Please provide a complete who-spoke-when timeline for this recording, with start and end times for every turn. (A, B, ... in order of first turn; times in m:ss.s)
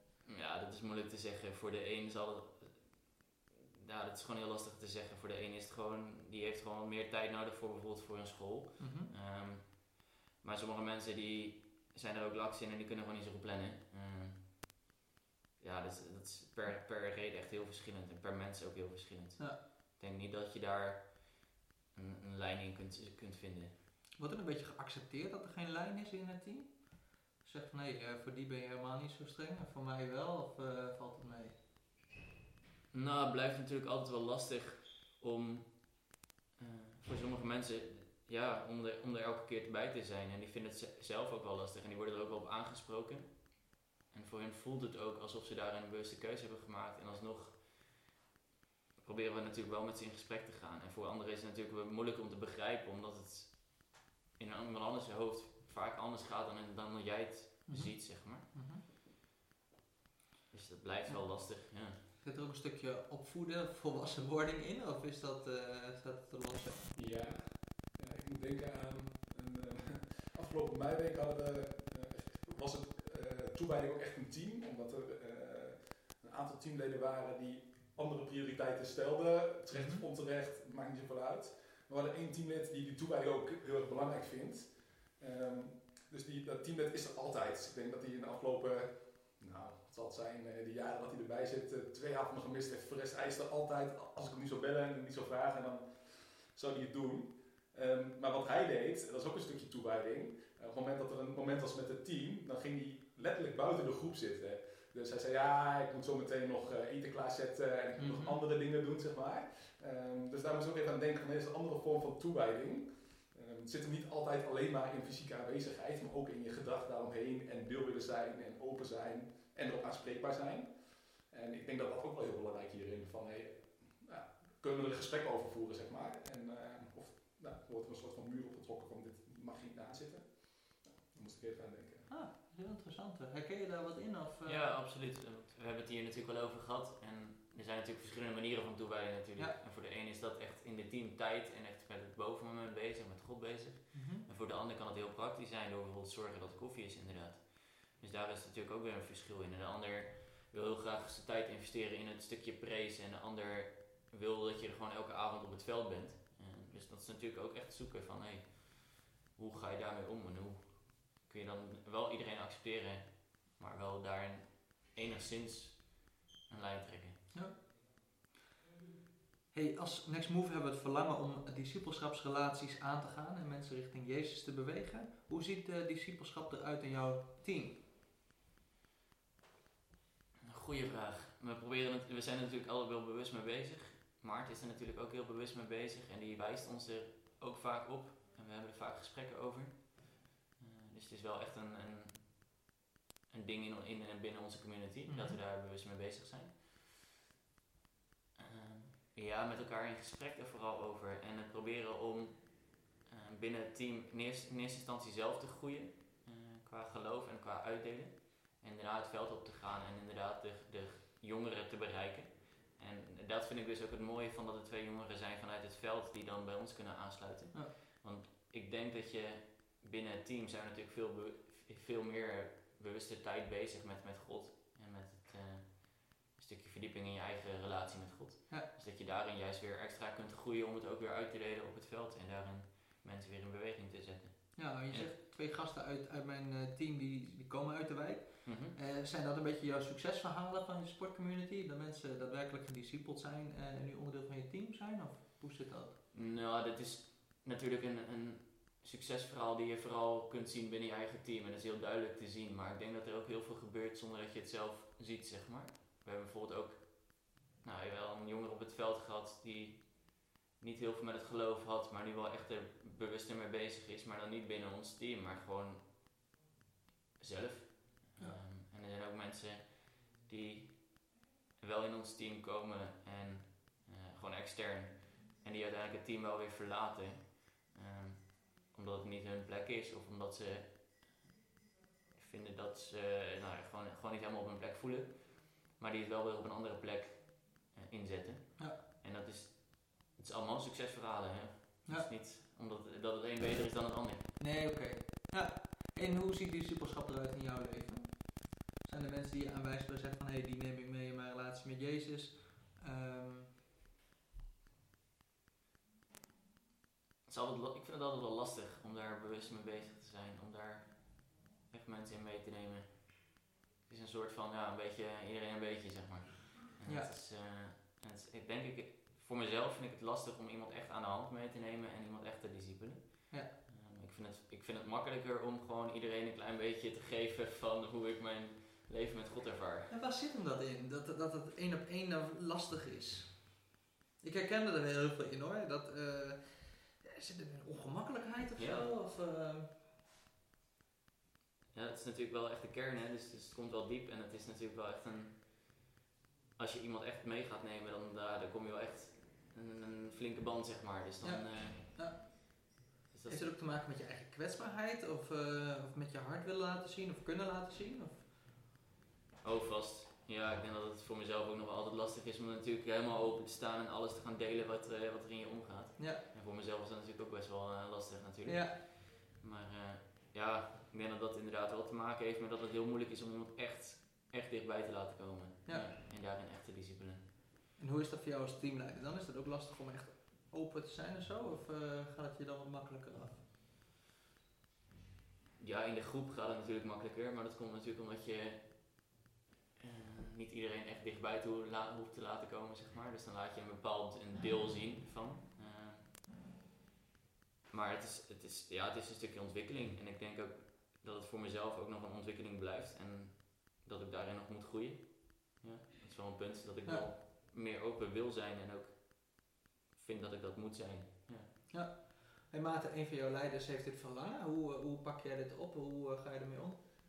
0:00.2-0:14.7 A
0:08.8-0:09.1 B
0:15.6-0:23.8 A
0:24.2-0:31.6 B
0:32.9-0:48.1 A
0:49.0-0:58.5 A
0:57.7-0:58.8 B
1:00.5-1:02.0 A
1:02.0-1:07.0 B
1:07.0-2:12.1 C
1:19.7-1:20.0 B
1:48.0-1:48.4 B
2:12.1-2:14.6 B
2:14.4-2:47.3 A
2:23.9-2:24.3 B
2:47.3-2:47.7 B
2:49.5-2:57.8 B
3:00.5-3:12.7 A
3:13.3-3:16.9 A
3:15.1-3:15.4 B
3:18.4-3:55.2 A
3:54.6-4:06.0 B
3:58.4-3:58.8 A
4:06.1-4:25.9 A
4:27.2-4:41.3 A
4:42.2-4:54.4 A
4:54.4-5:03.6 B
5:07.3-5:29.9 A
5:16.8-5:17.1 B
5:29.9-5:33.6 B
5:34.2-5:39.8 B
5:38.6-5:38.9 A
5:41.7-5:45.6 A
5:46.6-5:52.3 A
5:51.2-5:58.3 B
5:53.1-5:53.5 A
5:59.4-6:17.3 A
6:06.0-6:06.2 B
6:08.4-6:08.8 B
6:17.8-6:23.4 B
6:25.6-6:29.2 A
6:29.8-6:36.1 A
6:37.7-6:51.5 A
6:51.7-6:56.8 B